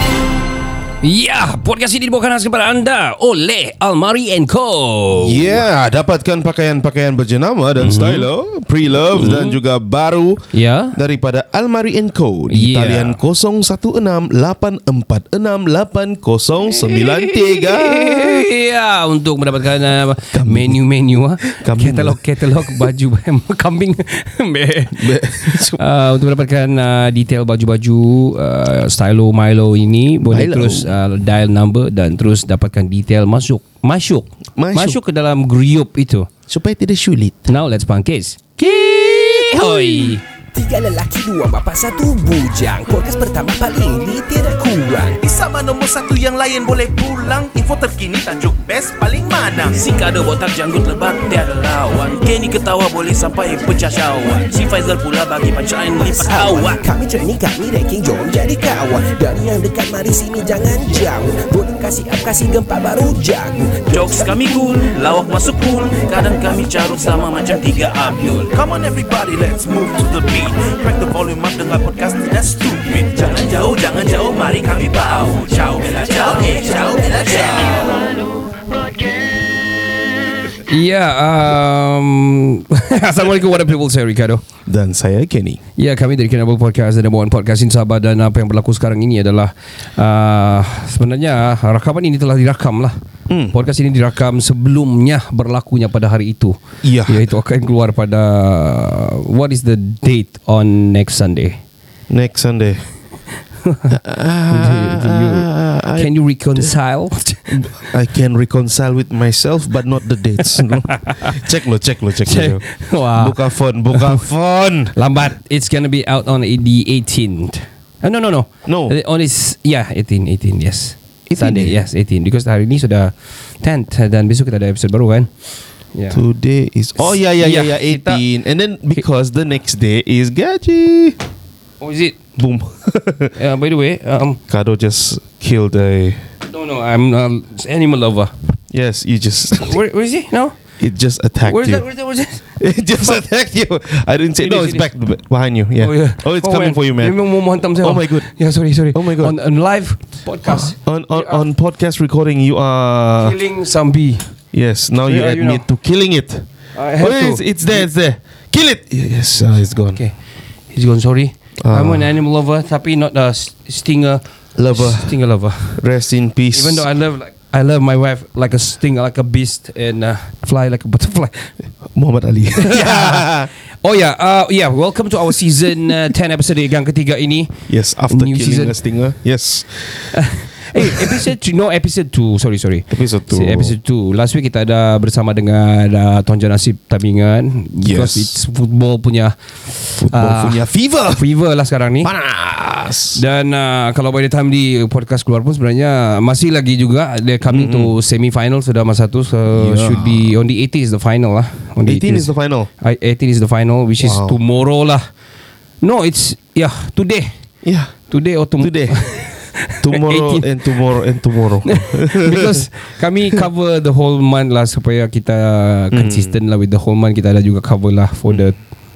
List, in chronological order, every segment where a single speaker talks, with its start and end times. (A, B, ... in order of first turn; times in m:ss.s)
0:01.0-0:05.6 A
0:05.2-0:18.5 B
0:07.8-0:08.3 A
0:09.1-0:09.6 A
0:10.5-0:11.0 A
0:12.5-0:13.2 A
0:16.7-0:36.3 A
0:20.3-0:20.8 B
0:21.5-0:22.8 B
0:24.9-0:25.8 B
0:30.3-0:31.0 B
0:34.6-0:35.0 B
0:36.5-0:37.5 B
0:37.5-0:40.2 A
0:38.6-0:40.2 B
0:40.5-0:45.3 C
0:45.2-0:56.8 D
0:49.6-0:50.4 C
0:53.3-0:53.9 C
0:55.9-1:08.5 C
1:03.9-1:18.0 D
1:16.0-1:17.6 C
1:20.6-1:24.4 A
1:24.7-1:25.6 B
1:25.8-1:33.0 A
1:33.3-1:33.5 B
1:33.5-1:41.6 A
1:36.8-1:37.2 B
1:42.1-1:42.9 B
1:43.6-1:44.0 A
1:43.9-1:46.7 B
1:44.5-1:47.6 A
1:47.5-1:54.9 B
1:50.7-1:51.4 A
1:52.2-1:53.4 A
1:53.9-1:54.2 A
1:54.9-2:05.3 A
1:58.7-1:58.9 B
2:01.3-2:01.8 B
2:06.0-2:06.2 A
2:06.1-2:11.2 B
2:07.4-2:08.2 A
2:11.8-2:12.2 A
2:12.4-2:13.3 B
2:13.4-2:14.4 A
2:14.5-2:16.2 B
2:16.5-2:18.3 A
2:18.7-2:19.8 B
2:19.6-2:20.6 A
2:20.8-2:21.8 B
2:21.4-2:22.4 A
2:22.6-2:28.3 B
2:24.4-2:24.8 A
2:25.8-2:31.4 A
2:28.9-2:29.4 B
2:30.5-2:33.4 B
2:33.2-2:34.3 A
2:34.5-2:36.5 B
2:35.1-2:35.6 A
2:36.8-2:37.8 A
2:37.0-2:40.0 B
2:40.7-2:45.8 A
2:41.6-2:42.1 B
2:44.6-2:45.2 B
2:45.8-2:46.9 B
2:46.5-2:51.5 A
2:51.9-2:53.5 B
2:52.6-2:58.8 A
2:57.7-3:00.2 B
3:00.1-3:12.1 A
3:00.7-3:01.3 B
3:02.9-3:03.8 B
3:07.8-3:08.4 B
3:10.0-3:11.2 B
3:12.0-3:13.2 B
3:13.1-3:25.0 A
3:17.5-3:17.9 B
3:19.5-3:20.4 B
3:21.9-3:22.7 B
3:24.0-3:24.4 B
3:25.8-3:27.3 A
3:27.6-3:27.9 B
3:28.1-3:30.5 A
3:28.6-3:29.2 B
3:29.8-3:32.6 B
3:31.6-3:38.6 A
3:35.9-3:36.4 B